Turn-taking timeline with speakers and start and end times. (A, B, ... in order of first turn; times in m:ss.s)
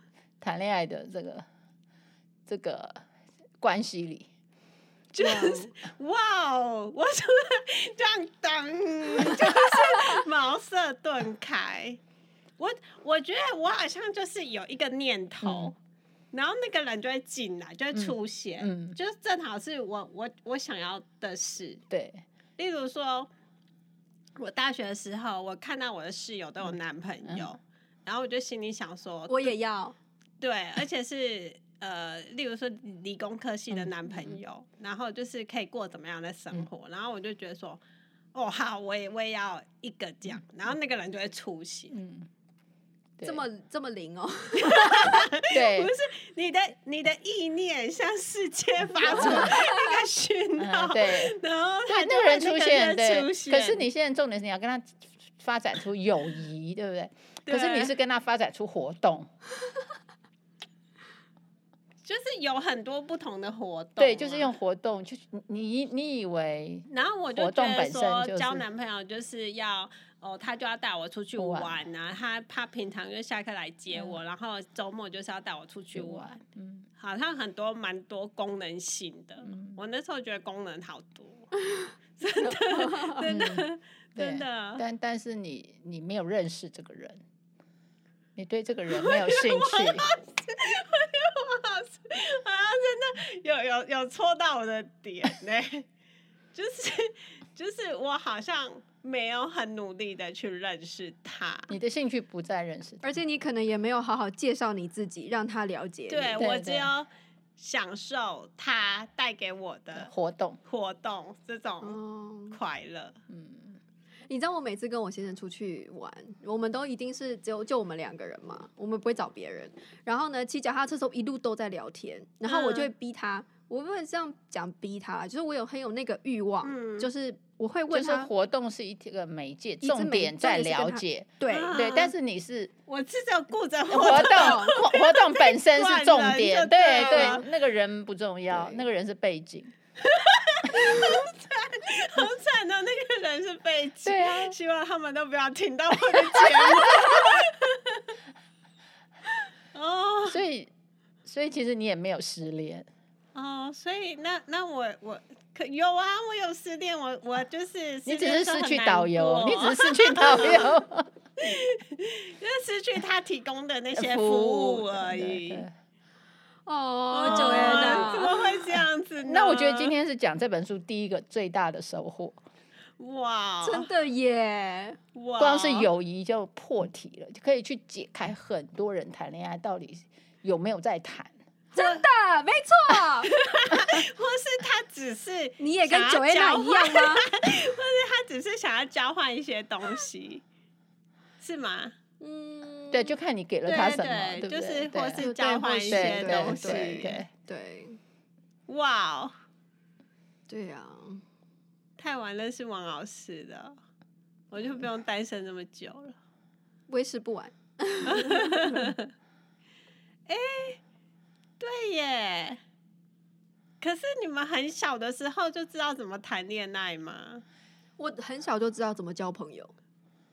0:00.4-0:01.4 A
0:02.5-0:03.0 A
0:03.6-0:04.3 A
0:05.1-0:12.0 B
0:05.2-0:05.7 C
0:12.6-0:15.8 B
0:15.4-0:15.7 A
0:16.3-0:21.8 B
0:17.9-0:19.0 A
0:21.9-0:22.2 A
0:22.6-0:23.3 B
0:24.4-0:29.5 B
0:29.3-0:30.0 C
0:30.4-0:37.8 B
0:33.7-0:34.4 A
0:38.3-0:42.0 B
0:41.9-0:42.3 A
0:43.2-0:43.4 A
0:43.2-0:45.2 C
0:44.6-0:53.8 B
0:45.5-0:45.9 A
0:49.0-0:49.6 A
0:49.0-0:50.0 C
0:50.6-0:51.4 A
0:51.9-0:59.3 A
0:57.4-0:57.9 B
1:02.0-1:04.5 B
1:04.0-1:08.6 A
1:06.9-1:16.4 B
1:11.4-1:11.7 A
1:13.9-1:14.2 A
1:15.9-1:16.8 A
1:17.0-1:21.5 B
1:19.4-1:19.8 A
1:22.2-1:24.8 B
1:22.8-1:23.1 C
1:23.2-1:27.2 A
1:28.4-1:30.1 A
1:28.9-1:35.8 B
1:36.5-1:41.7 B
1:41.7-1:43.2 A
1:43.0-1:46.4 C
1:46.1-1:50.1 B
1:46.4-1:46.9 A
1:49.9-1:50.6 A
1:50.6-1:52.0 B
1:51.8-1:52.6 C
1:52.5-1:53.2 B
1:53.3-1:53.8 A
1:54.3-2:08.3 C
2:02.5-2:02.9 B
2:06.6-2:07.1 B
2:07.9-2:12.7 A
2:09.8-2:11.8 C
2:11.5-2:12.1 B
2:12.9-2:17.4 B
2:13.9-2:19.7 A
2:14.0-2:14.7 C
2:17.0-2:17.4 C
2:18.5-2:18.8 C
2:20.0-2:28.2 B
2:24.0-2:24.6 A
2:26.1-2:27.4 A
2:29.7-2:30.4 B
2:30.3-2:30.7 A
2:31.2-2:32.9 A
2:33.3-2:40.8 B
2:38.0-2:41.1 A
2:41.4-2:45.6 B
2:43.9-2:45.7 A
2:46.6-2:48.5 C
2:47.1-2:49.9 B
2:47.2-2:48.4 A
2:49.2-2:52.4 A
2:53.0-2:53.9 B
2:53.6-2:55.0 C
2:55.1-2:55.9 B
2:55.4-3:01.3 A
3:01.7-3:03.3 C
3:03.2-3:10.4 B
3:03.8-3:04.0 A
3:05.6-3:07.3 C
3:11.4-3:11.9 B
3:12.2-3:13.1 C
3:12.9-3:15.3 A
3:13.6-3:17.2 B
3:15.2-3:18.0 C
3:15.9-3:17.3 A
3:18.7-3:19.3 B
3:20.5-3:21.2 C
3:22.0-3:23.8 B
3:24.5-3:26.2 B
3:26.9-3:28.9 C
3:28.1-3:29.1 B
3:30.3-3:30.8 B
3:31.6-3:32.6 B
3:33.8-3:37.4 B
3:38.0-3:39.7 C